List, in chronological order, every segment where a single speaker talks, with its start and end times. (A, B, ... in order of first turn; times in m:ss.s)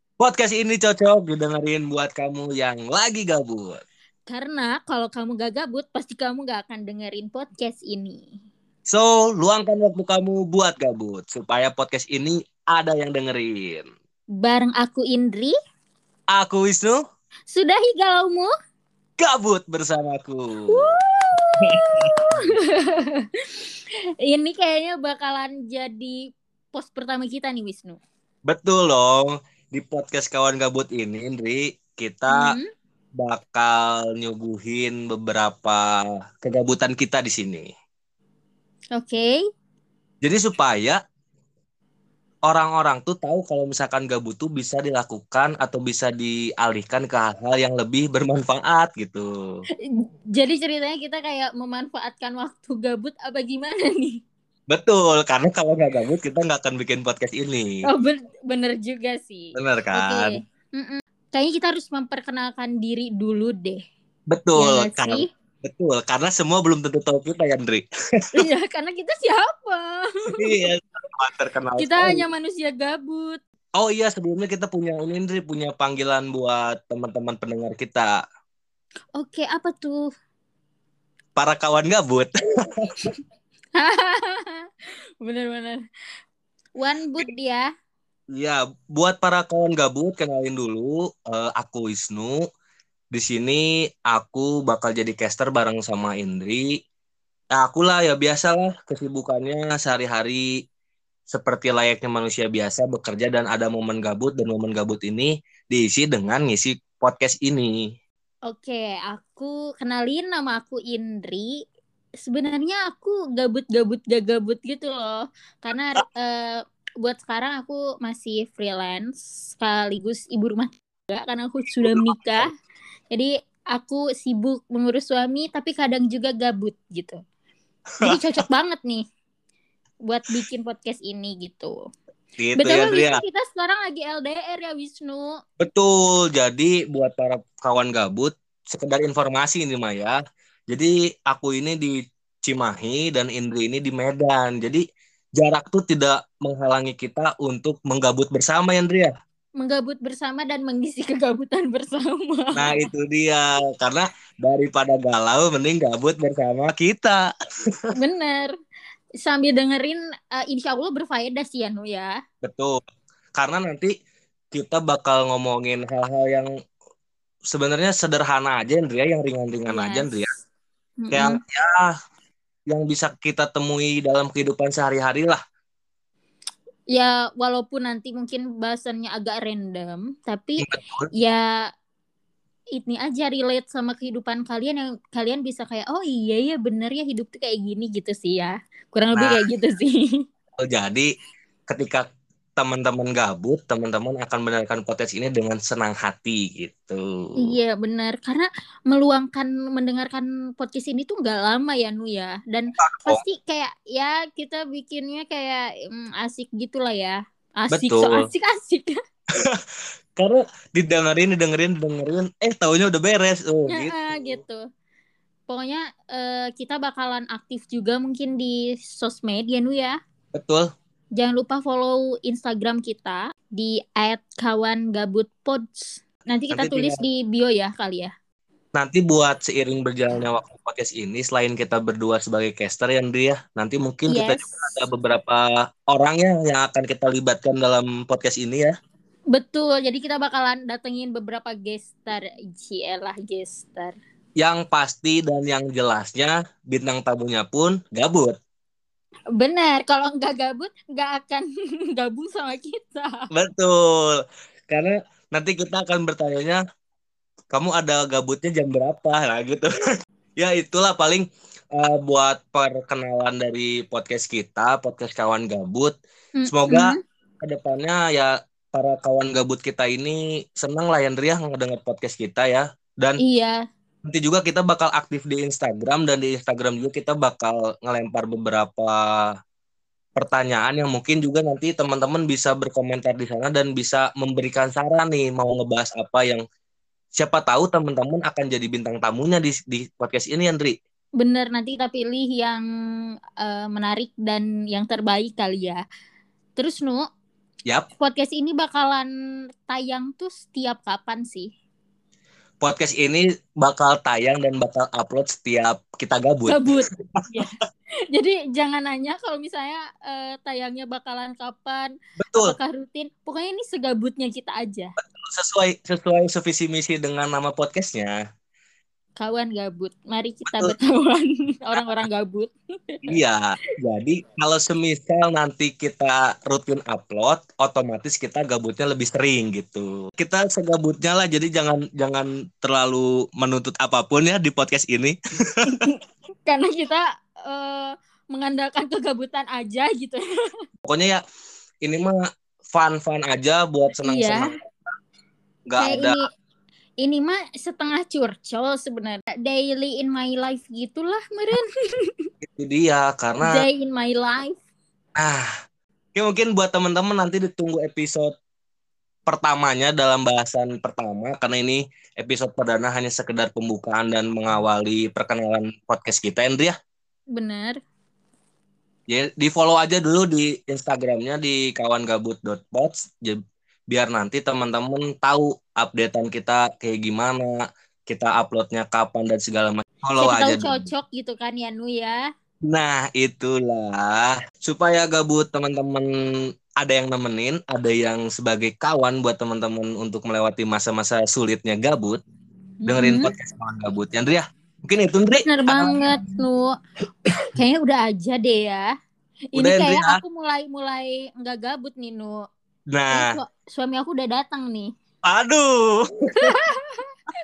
0:00.2-0:03.8 A
0:04.3-0:08.3 B
0:08.9-0:13.9 A
0:14.4-0:15.5 B
0:16.3-0:17.0 A
0:17.5-0:18.5 B
0:19.2-0:20.9 A
0:20.7-0:23.5 B
0:21.6-0:22.3 A
0:24.2-0:28.0 B
0:28.5-0:32.6 A
0:32.3-0:32.7 B
0:33.2-0:37.7 A
0:39.0-0:39.4 B
0:40.2-0:41.0 A
0:42.5-0:49.6 A
0:50.3-0:54.2 B
0:54.7-0:57.8 A
0:57.9-1:03.8 B
0:59.6-1:00.4 A
1:04.3-1:07.9 A
1:04.6-1:05.3 B
1:08.4-1:10.6 B
1:10.4-1:12.2 A
1:11.8-1:13.4 B
1:13.8-1:18.2 A
1:19.2-1:20.1 B
1:21.4-1:23.1 A
1:23.8-1:24.6 B
1:25.2-1:25.8 B
1:26.8-1:27.7 B
1:28.3-1:32.4 A
1:33.1-1:36.7 A
1:37.6-1:40.5 A
1:41.3-1:47.8 A
1:48.5-1:51.6 B
1:52.2-2:02.5 B
2:01.8-2:02.4 A
2:03.1-2:07.2 B
2:08.0-2:08.4 A
2:08.0-2:09.0 B
2:10.1-2:11.8 B
2:12.4-2:13.2 A
2:12.6-2:15.4 B
2:15.6-2:20.2 A
2:20.7-2:24.8 A
2:25.4-2:29.1 A
2:29.6-2:32.9 B
2:32.6-2:37.3 A
2:38.0-2:38.5 B
2:39.2-2:42.1 B
2:42.4-2:42.8 A
2:43.4-2:43.9 A
2:44.5-2:46.5 A
2:47.5-2:50.3 A
2:49.7-2:50.1 B
2:51.0-2:51.4 B
2:51.1-2:51.9 A
2:52.7-2:55.4 A
2:56.9-3:01.5 B
3:00.6-3:01.1 A
3:02.8-3:10.2 B
3:09.1-3:09.4 A
3:10.6-3:11.1 A
3:11.7-3:12.0 A
3:12.6-3:17.6 A
3:17.4-3:29.0 B
3:22.8-3:23.2 A
3:27.7-3:28.2 A
3:30.2-3:34.4 A
3:33.7-3:34.6 B
3:35.5-3:40.0 B
3:40.3-3:40.7 A
3:41.2-3:48.1 B
3:46.5-3:47.0 A
3:48.7-3:58.7 A
3:54.1-3:54.5 B
3:59.3-4:04.0 B
4:04.4-4:08.4 A
4:09.4-4:13.3 B
4:13.3-4:14.2 A
4:14.7-4:16.6 A
4:17.5-4:19.7 A
4:20.4-4:21.2 A
4:21.8-4:25.9 A
4:26.4-4:27.0 B
4:26.5-4:33.2 A
4:33.2-4:33.6 B
4:34.0-4:39.3 A
4:40.2-4:46.4 A
4:47.2-4:50.8 A
4:51.2-4:52.6 B
4:53.4-4:55.8 B
4:56.6-4:57.1 B
4:58.0-4:59.1 B
4:59.7-5:01.5 B
5:02.6-5:06.6 A
5:06.5-5:07.6 B
5:08.1-5:14.9 B
5:12.2-5:12.6 A
5:15.1-5:18.2 A
5:19.2-5:23.0 B
5:20.5-5:20.7 A
5:21.8-5:22.0 A
5:23.1-5:35.2 A
5:35.7-5:40.2 B
5:40.8-5:41.2 A
5:41.8-5:44.6 A
5:44.0-5:44.5 B
5:45.7-5:46.2 A
5:45.8-5:46.3 B
5:47.0-5:52.2 B
5:52.5-5:53.7 A
5:53.4-5:54.6 B
5:55.2-5:55.5 A
5:56.2-5:58.3 A
5:59.3-6:06.7 A
6:07.3-6:07.8 B
6:09.1-6:13.4 A
6:13.9-6:20.9 A
6:20.2-6:22.2 B
6:22.7-6:26.1 A
6:26.8-6:32.2 A
6:32.8-6:33.3 B
6:32.9-6:36.1 A
6:35.4-6:36.7 B
6:37.6-6:38.9 B
6:39.5-6:42.4 B
6:39.6-6:40.2 A
6:42.9-6:43.4 A
6:43.1-6:44.9 B
6:45.2-6:46.6 A
6:46.4-6:47.1 B